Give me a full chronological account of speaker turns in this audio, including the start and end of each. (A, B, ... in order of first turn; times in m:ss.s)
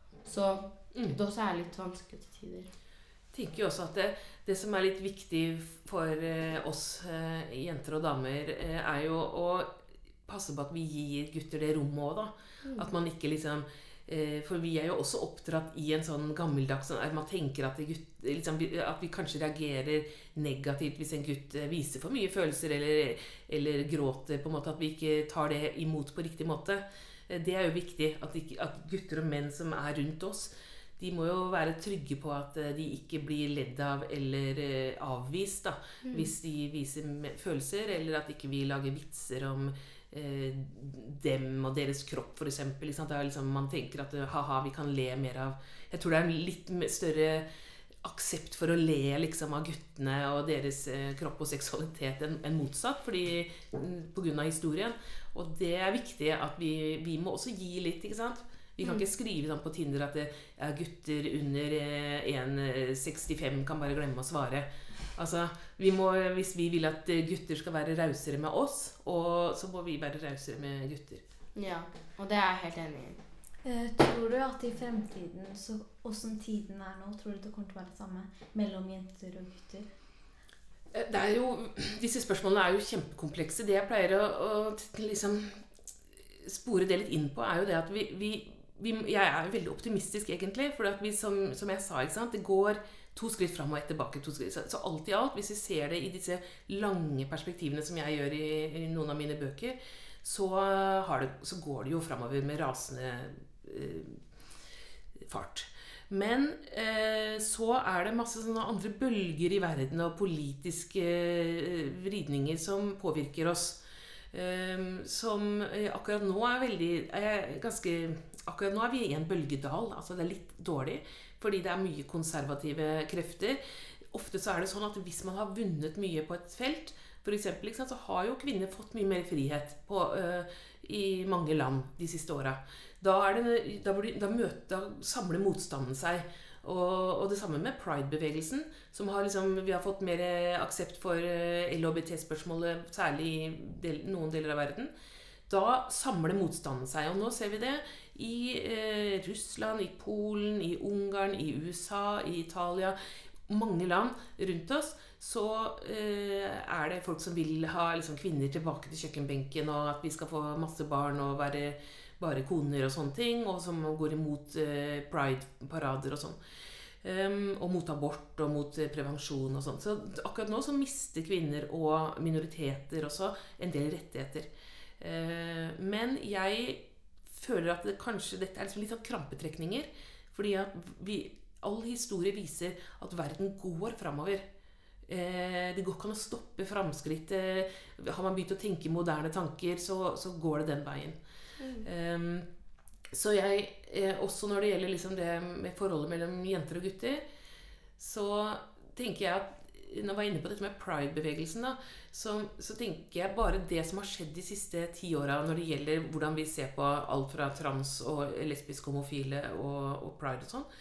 0:00.2-0:02.7 A
0:03.3-0:09.7 B
0:10.3-0:47.5 B
0:12.6-0:12.9 A
0:36.0-0:36.3 A
0:48.0-1:11.2 B
1:11.6-1:13.2 A
1:13.6-1:19.9 C
1:20.9-1:25.6 B
1:26.3-1:44.2 B
1:45.2-1:53.8 B
1:54.3-2:24.9 B
2:25.5-2:33.0 B
2:33.5-2:46.4 B
2:47.0-3:04.4 B
3:05.1-3:11.2 B
3:11.6-3:11.9 A
3:11.8-3:12.5 B
3:13.1-3:17.2 B
3:18.0-3:30.7 B